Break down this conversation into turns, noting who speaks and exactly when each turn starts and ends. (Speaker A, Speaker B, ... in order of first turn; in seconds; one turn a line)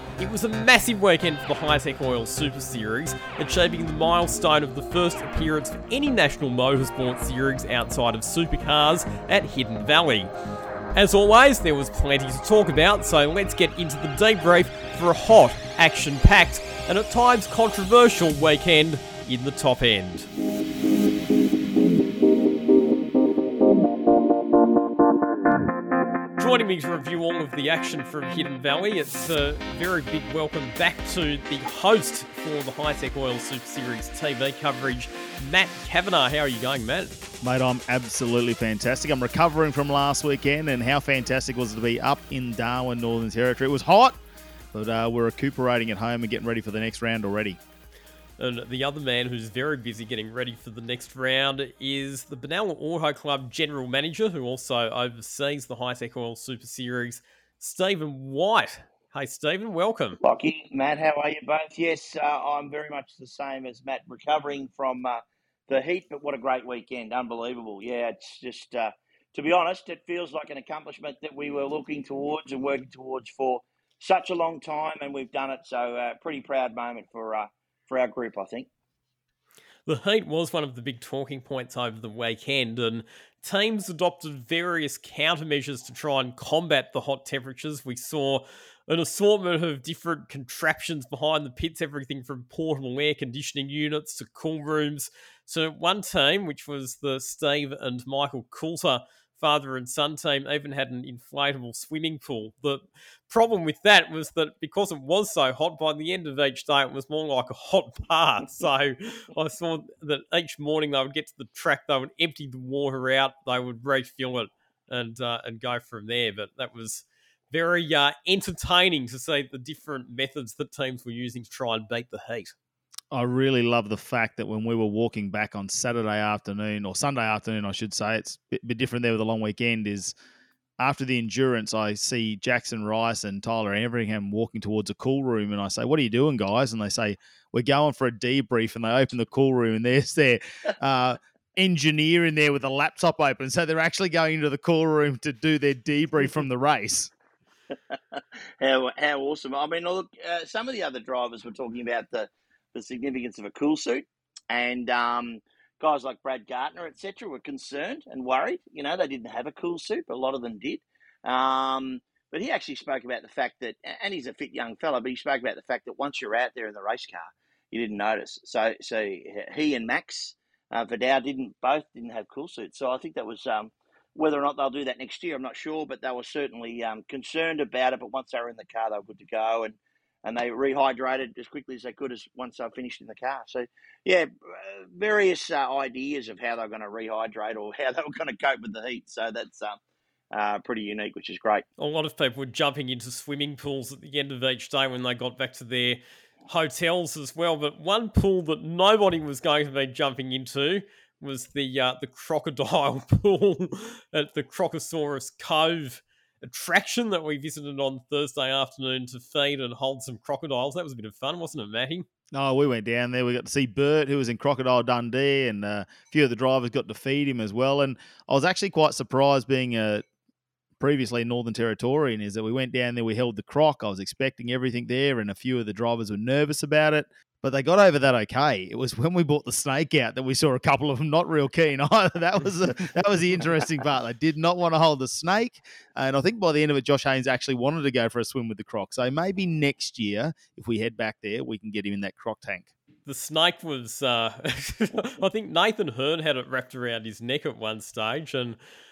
Speaker A: 0.2-10.3
Speaker A: 10.9-20.3
Speaker A: 26.4-37.1
Speaker B: 37.4-44.2
Speaker B: 44.7-47.6
Speaker A: 48.4-60.2
Speaker C: 60.2-78.7
Speaker A: 79.8-122.5
Speaker B: 123.1-130.1
Speaker B: 130.8-147.1
Speaker C: 147.9-189.8
Speaker C: 190.3-191.6
Speaker A: 191.8-212.1
Speaker B: 212.3-220.0
Speaker B: 220.8-242.7
Speaker A: 243.1-248.6